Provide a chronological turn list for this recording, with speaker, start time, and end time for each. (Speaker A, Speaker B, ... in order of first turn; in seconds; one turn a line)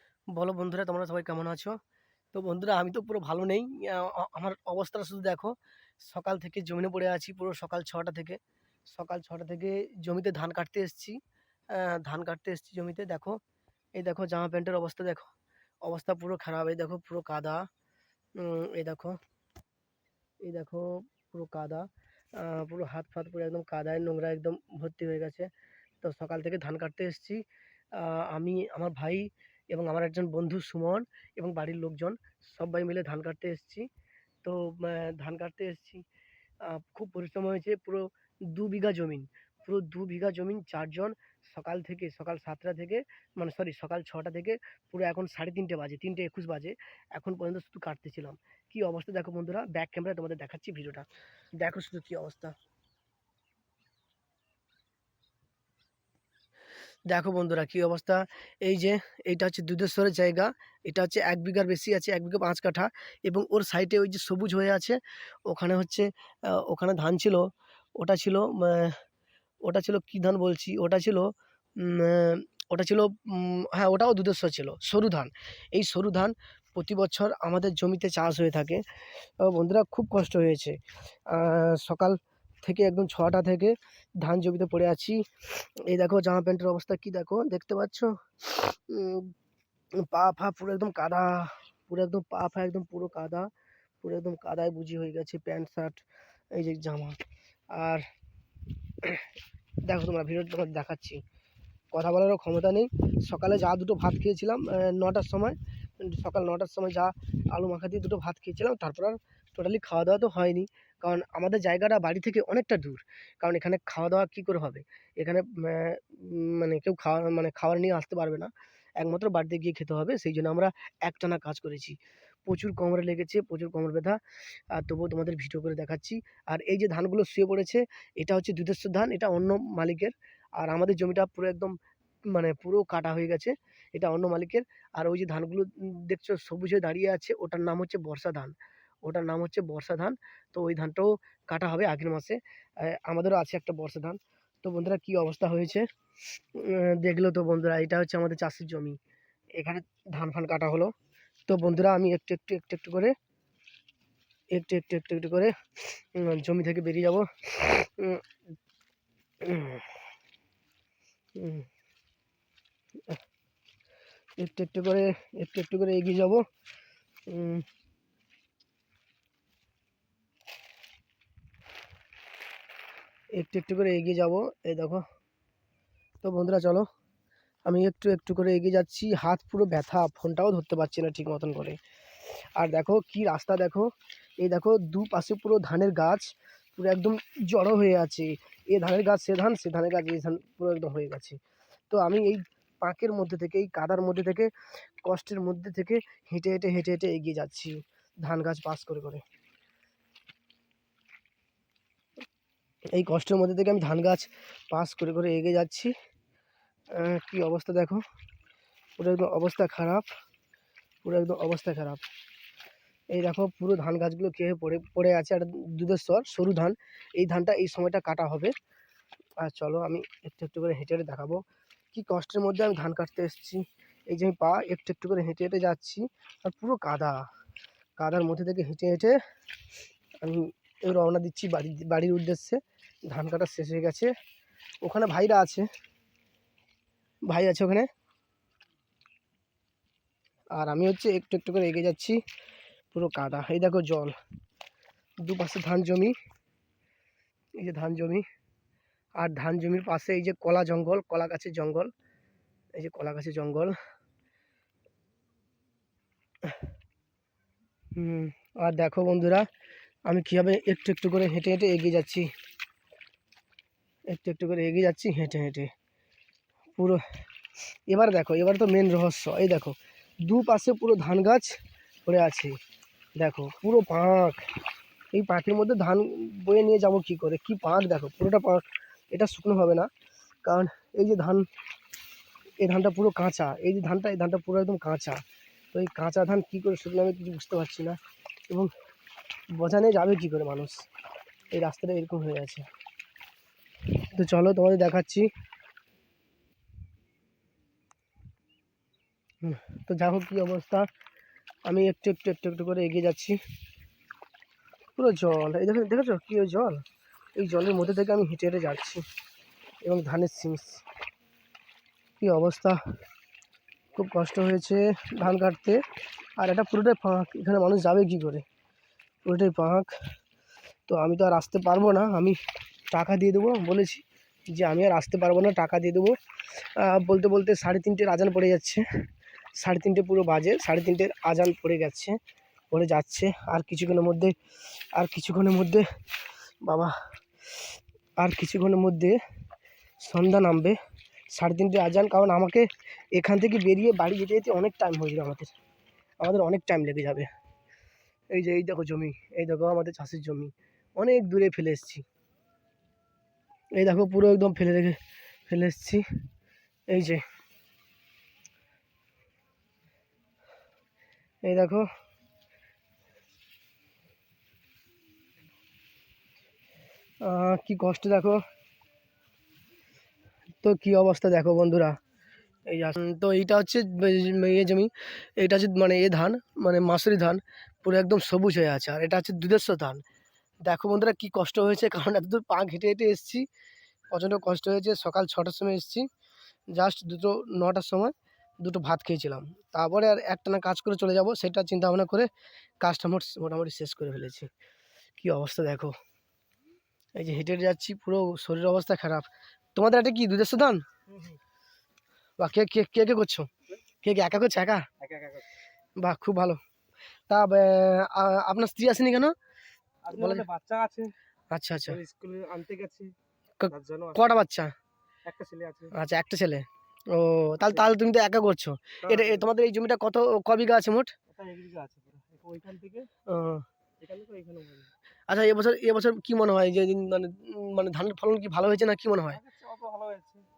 Speaker A: 0.3-1.8
Speaker A: 2.3-8.4
Speaker A: 8.9-11.2
Speaker A: 11.7-13.4
Speaker A: 14.0-15.3
Speaker A: 15.8-17.7
Speaker A: 18.4-19.2
Speaker A: 20.4-25.5
Speaker A: 26.0-33.9
Speaker A: 34.4-36.0
Speaker A: 36.6-51.1
Speaker A: 51.6-52.5
Speaker A: 57.1-69.0
Speaker A: 69.6-78.8
Speaker A: 79.4-89.3
Speaker A: 90.0-93.5
Speaker A: 94.0-97.2
Speaker A: 97.7-98.0
Speaker A: 99.0-99.3
Speaker A: 99.8-101.2
Speaker A: 101.9-124.2
Speaker A: 124.7-145.9
Speaker A: 146.5-149.0
Speaker A: 149.6-150.9
Speaker A: 151.5-153.1
Speaker A: 154.5-158.2
Speaker A: 159.4-159.9
Speaker A: 161.4-161.7
Speaker A: 164.4-166.4
Speaker A: 167.3-167.7
Speaker A: 173.4-175.0
Speaker A: 176.2-176.9
Speaker A: 177.7-181.8
Speaker A: 182.6-191.4
Speaker A: 191.9-194.5
Speaker A: 195.0-199.2
Speaker A: 202.9-205.9
Speaker A: 206.9-208.0
Speaker A: 209.0-210.1
Speaker A: 211.0-212.1
Speaker A: 213.1-218.5
Speaker A: 219.4-221.4
Speaker A: 221.9-227.2
Speaker A: 228.0-229.2
Speaker A: 230.2-234.1
Speaker A: 234.8-235.7
Speaker A: 237.3-237.9
Speaker A: 240.6-242.2
Speaker A: 242.9-244.2
Speaker A: 245.2-246.1
Speaker A: 247.6-248.2
Speaker A: 249.2-251.9
Speaker A: 252.8-253.8
Speaker A: 257.9-259.5
Speaker A: 260.1-262.3
Speaker A: 264.1-265.7
Speaker A: 267.9-271.6
Speaker A: 272.1-272.6
Speaker A: 273.2-274.4
Speaker A: 275.1-279.9
Speaker A: 280.4-281.5
Speaker A: 282.6-285.2
Speaker A: 285.7-288.7
Speaker A: 289.6-290.9
Speaker A: 291.5-292.7
Speaker A: 294.0-295.3
Speaker A: 299.4-300.9
Speaker A: 301.7-303.4
Speaker A: 305.0-306.8
Speaker A: 307.4-309.1
Speaker A: 309.8-310.8
Speaker A: 312.2-312.8
Speaker A: 313.9-315.8
Speaker A: 316.4-318.4
Speaker A: 319.2-319.9
Speaker A: 320.9-322.4
Speaker A: 322.9-326.2
Speaker A: 326.8-328.8
Speaker A: 329.6-332.2
Speaker A: 332.7-334.4
Speaker A: 334.9-335.9
Speaker A: 336.6-336.9
Speaker A: 338.2-339.2
Speaker A: 340.0-340.8
Speaker A: 341.3-345.5
Speaker A: 346.2-347.3
Speaker A: 348.3-352.0
Speaker A: 353.8-356.1
Speaker A: 356.9-357.2
Speaker A: 361.4-361.9
Speaker A: 367.2-368.4
Speaker A: 370.6-372.0
Speaker A: 372.7-380.0
Speaker A: 380.6-383.5
Speaker A: 384.1-386.1
Speaker A: 386.7-394.5
Speaker A: 395.2-396.0
Speaker A: 397.2-400.8
Speaker B: 401.1-401.4
Speaker A: 402.4-403.5
Speaker A: 404.0-404.9
Speaker B: 405.0-405.5
Speaker A: 406.0-406.6
Speaker A: 407.3-409.3
Speaker B: 410.1-411.1
Speaker A: 410.1-410.5
Speaker A: 411.5-412.0
Speaker B: 411.9-413.1
Speaker A: 413.6-414.7
Speaker B: 413.7-414.4
Speaker B: 415.3-415.9
Speaker A: 415.9-421.1
Speaker B: 419.0-419.4
Speaker B: 421.3-423.1
Speaker A: 423.3-423.7
Speaker B: 424.0-424.9
Speaker A: 425.3-429.4
Speaker B: 429.3-430.5